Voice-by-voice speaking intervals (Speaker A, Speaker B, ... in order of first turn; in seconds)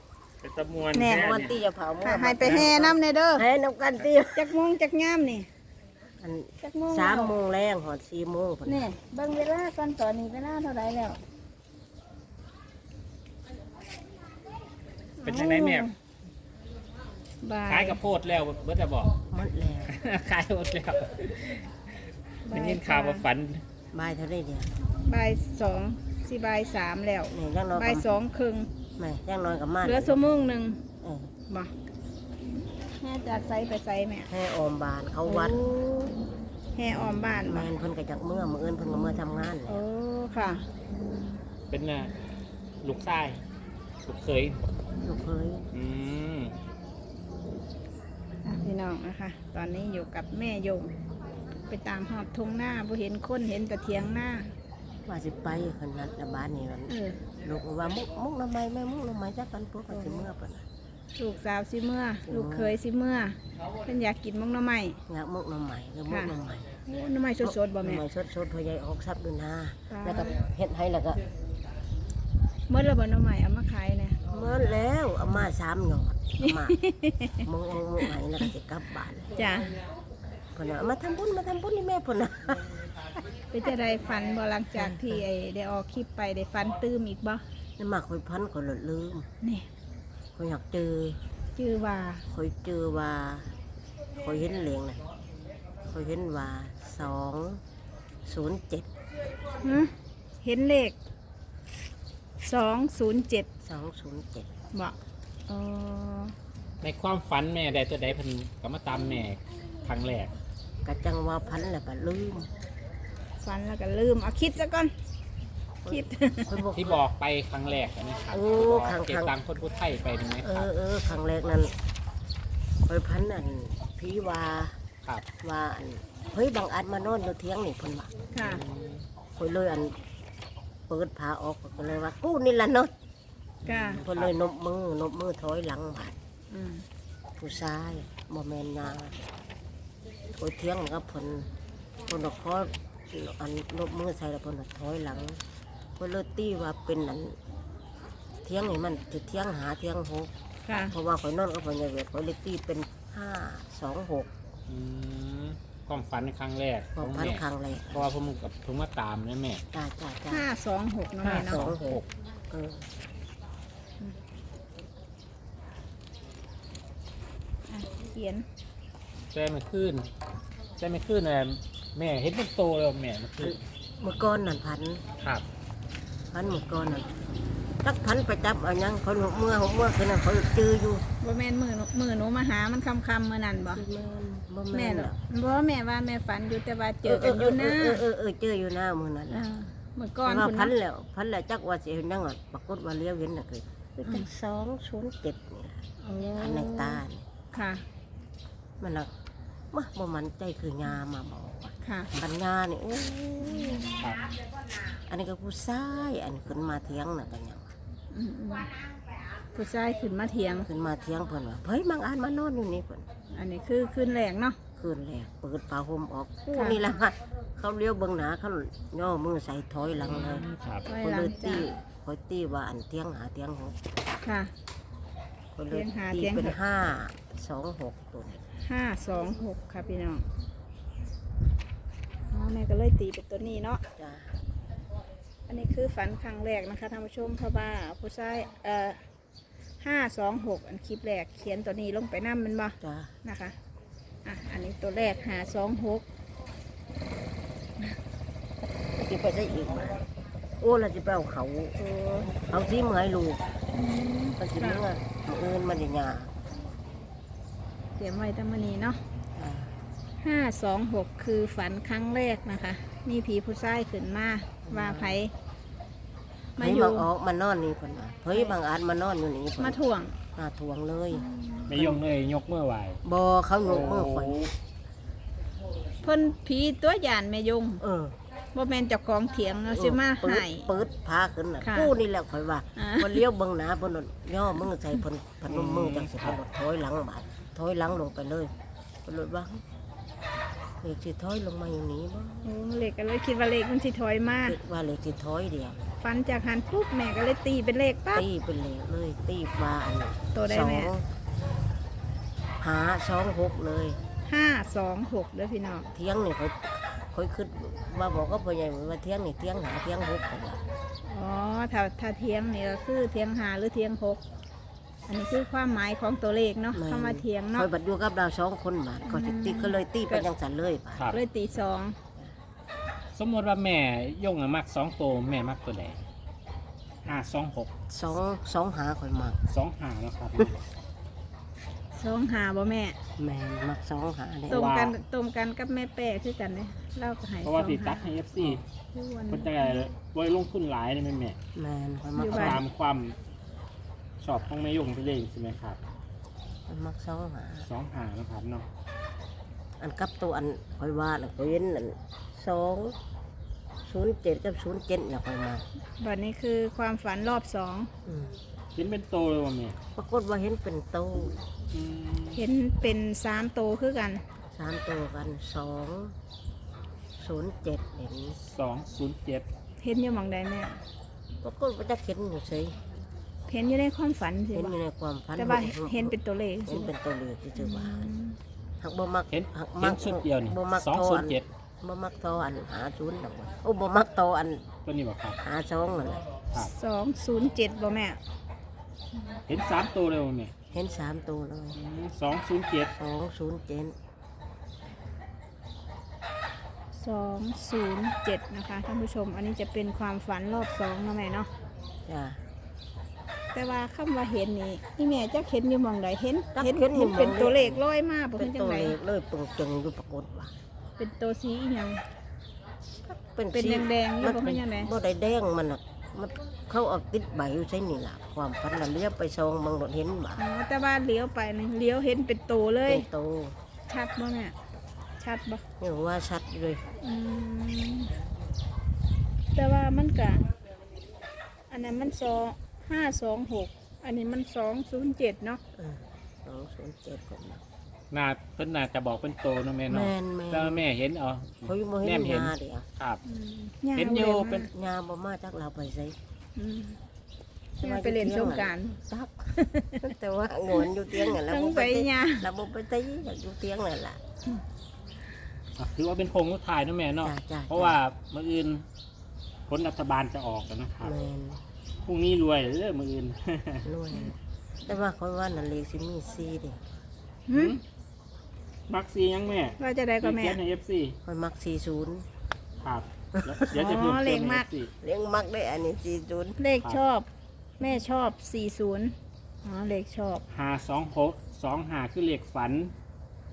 Speaker A: 0.4-1.6, 2.4-2.7, 15.2-15.9, 17.7-19.1, 19.9-21.7, 22.5-23.6, 41.7-42.1, 42.8-43.4, 44.0-44.6, 45.7-46.5, 106.8-110.3, 116.8-120.7, 128.4-129.1, 133.6-134.3, 154.7-159.6, 161.2-162.1, 169.3-170.1, 170.8-173.6, 175.2-175.4, 204.0-204.3, 220.0-220.9, 271.7-273.0, 273.6-274.5, 285.5-286.4, 323.1-326.0, 327.0-327.7, 329.5-330.6, 334.5-334.9, 337.4-338.6, 339.3-341.4, 342.3-343.1, 344.2-345.8, 347.6-348.7, 358.8-359.8, 361.7-362.4, 368.4-369.5, 379.3-381.4, 384.8-385.4, 389.5-390.5, 391.7-392.9, 438.1-443.2, 443.9-444.7, 455.8-458.8, 459.7-461.1, 462.0-463.9, 467.5-467.8, 468.9-471.2, 472.8-474.9, 480.5-482.9
Speaker B: 0.9-1.4, 2.0-3.5, 4.3-5.5, 6.6-7.3, 8.7-11.2, 15.2-15.9, 17.4-18.0, 22.4-23.2, 25.1-28.7, 29.8-30.8, 33.0-34.3, 35.2-36.2, 36.7-37.7, 39.7-40.6, 48.4-50.9, 51.7-54.5, 56.9-57.2, 61.1-65.0, 66.8-68.0, 69.9-70.3, 72.7-74.2, 76.4-77.5, 79.3-79.8, 83.5-87.4, 89.4-89.7, 91.5-92.2, 99.6-101.0, 102.4-103.5, 105.5-106.3, 113.4-114.9, 115.9-116.6, 128.3-128.6, 133.7-134.0, 136.5-136.8, 150.7-150.9, 160.3-161.6, 167.7-168.4, 181.2-183.8, 184.7-188.0, 189.3-190.7, 196.0-197.8, 201.8-202.1, 203.4-204.1, 208.1-208.7, 209.5-210.7, 213.3-214.6, 216.5-216.8, 220.8-221.7, 224.2-224.5, 225.7-226.6, 228.6-230.2, 232.3-233.8, 235.5-239.0, 239.8-243.5, 244.2-246.0, 251.8-252.3, 253.7-254.8, 258.0-259.0, 260.2-265.3, 266.6-267.1, 269.6-270.2, 271.1-271.9, 276.0-277.8, 278.5-280.7, 281.6-281.9, 282.8-283.2, 292.4-294.6, 296.0-298.2, 300.3-300.9, 304.2-305.9, 311.0-314.2, 315.1-317.7, 319.0-320.2, 321.1-322.0, 331.9-333.0, 334.5-338.1, 338.9-339.8, 342.1-342.6, 356.0-357.9, 362.3-364.2, 369.8-370.8, 373.5-374.8, 375.4-376.9, 377.6-378.4, 386.6-388.2, 396.9-401.5, 403.5-408.9, 411.0-412.0, 413.5-414.9, 420.4-423.1, 423.9-424.5, 425.2-425.6, 427.0-428.1, 429.5-430.5, 431.7-435.6, 443.2-444.7, 446.6-447.0, 447.8-450.1, 451.1-452.5, 467.5-467.8, 469.8-470.6, 473.7-474.7, 476.6-477.3, 477.8-480.4
Speaker C: 1.1-4.5, 6.2-8.9, 19.3-19.9, 23.9-24.7, 27.3-28.1, 29.0-30.3, 31.0-31.3, 34.3-35.6, 36.9-39.8, 45.0-45.6, 55.0-60.6, 62.3-62.8, 65.1-66.7, 67.4-71.2, 74.3-76.8, 77.4-79.3, 80.5-82.8, 84.7-85.2, 87.8-89.3, 90.3-91.2, 92.3-93.5, 94.2-95.0, 95.8-97.6, 98.2-98.9, 103.6-104.5, 110.8-112.5, 115.8-117.0, 118.3-119.3, 120.4-121.7, 122.8-124.8, 125.4-128.1, 129.3-130.0, 130.9-132.9, 133.9-136.2, 137.4-139.2, 140.3-141.5, 142.1-145.4, 146.0-147.4, 148.4-154.3, 156.9-158.1, 159.7-160.5, 161.2-162.9, 173.4-175.0, 176.3-177.1, 177.8-181.0, 183.7-185.2, 187.0-189.4, 190.2-195.8, 196.3-197.2, 198.8-199.1, 199.7-203.9, 204.9-207.7, 210.6-213.1, 214.8-223.8, 225.5-228.4, 233.9-234.3, 242.8-243.1, 248.9-250.0, 250.6-251.8, 252.3-253.4, 254.3-256.3, 259.4-259.8, 264.6-265.2, 266.6-269.8, 270.3-271.2, 273.0-274.4, 277.8-278.1, 279.7-288.5, 289.1-289.6, 290.8-292.5, 294.4-295.9, 298.1-301.0, 302.6-304.0, 305.9-310.6, 316.7-321.1, 327.9-329.4, 333.2-334.8, 341.5-342.6, 346.7-347.7, 349.8-352.9, 353.8-355.6, 358.0-358.3, 359.9-361.4, 364.5-366.1, 367.2-368.4, 371.4-372.7, 374.5-378.1, 378.8-384.7, 385.4-386.2, 390.7-391.8, 392.9-393.9, 402.1-402.4, 406.5-407.8, 408.4-410.5, 413.0-420.4, 422.9-423.6, 425.8-426.9, 435.7-437.6, 439.9-440.8, 441.6-442.9, 444.5-446.1, 447.8-449.3, 450.0-454.2, 457.2-458.0, 461.0-461.6, 463.8-466.8, 471.2-472.2, 473.3-474.1, 475.0-476.6